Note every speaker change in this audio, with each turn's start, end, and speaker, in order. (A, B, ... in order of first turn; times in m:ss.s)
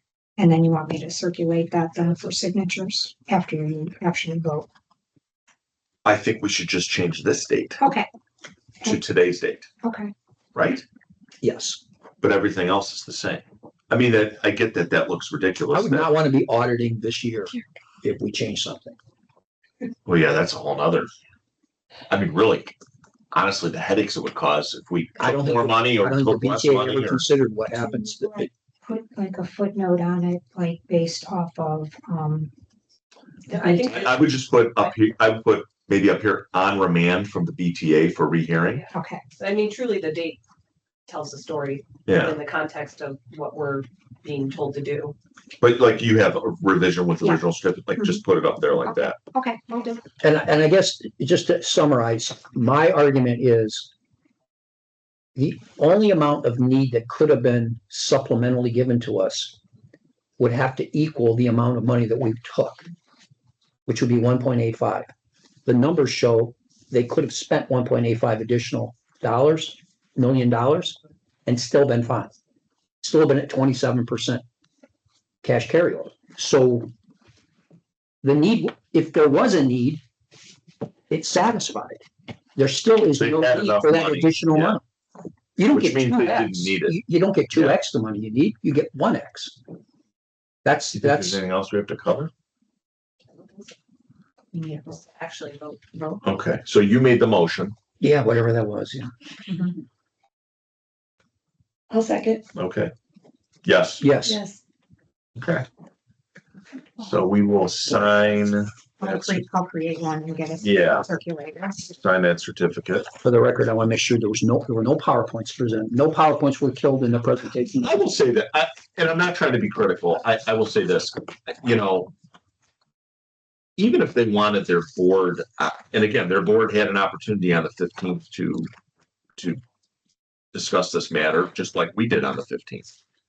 0:00.4-0:04.7 A
0:06.0-0:07.8 B
0:07.8-0:08.1 A
0:08.8-0:09.7 B
0:09.8-0:10.1 A
0:10.6-0:10.8 B
0:11.4-0:11.8 C
0:12.2-0:16.1 B
0:15.7-0:19.0 C
0:20.0-0:21.1 B
0:22.1-0:22.8 B
0:23.3-0:27.3 B
0:25.2-0:28.5 C
0:27.7-0:32.5 A
0:33.5-0:34.9 D
0:33.8-0:38.8 B
0:38.9-0:39.2 A
0:39.4-0:40.4 D
0:41.1-0:45.2 D
0:42.1-0:42.4 B
0:45.6-0:49.2 B
0:48.0-0:48.2 A
0:48.9-0:50.0 A
0:50.2-0:53.9 C
0:55.4-0:59.6 C
1:00.4-1:02.9 C
1:03.9-1:05.1 C
1:05.7-1:12.3 C
1:13.0-1:14.4 C
1:15.4-1:16.9 C
1:18.2-1:20.0 C
1:21.1-1:22.0 C
1:22.6-1:24.8 C
1:23.1-1:24.8 B
1:25.6-1:29.6 C
1:25.6-1:27.0 B
1:27.5-1:27.8 B
1:30.6-1:31.4 C
1:30.9-1:32.3 B
1:33.3-1:33.7 D
1:34.7-1:36.0 D
1:36.2-1:37.8 B
1:38.0-1:39.1 C
1:42.5-1:42.9 B
1:43.6-1:44.0 B
1:44.0-1:44.4 C
1:45.4-1:45.7 B
1:47.0-1:49.4 B
1:49.0-1:51.9 A
1:50.6-1:51.1 B
1:51.8-1:53.1 B
1:53.2-1:58.0 C
1:57.8-2:02.1 B
2:03.8-2:08.7 B
2:10.5-2:12.9 B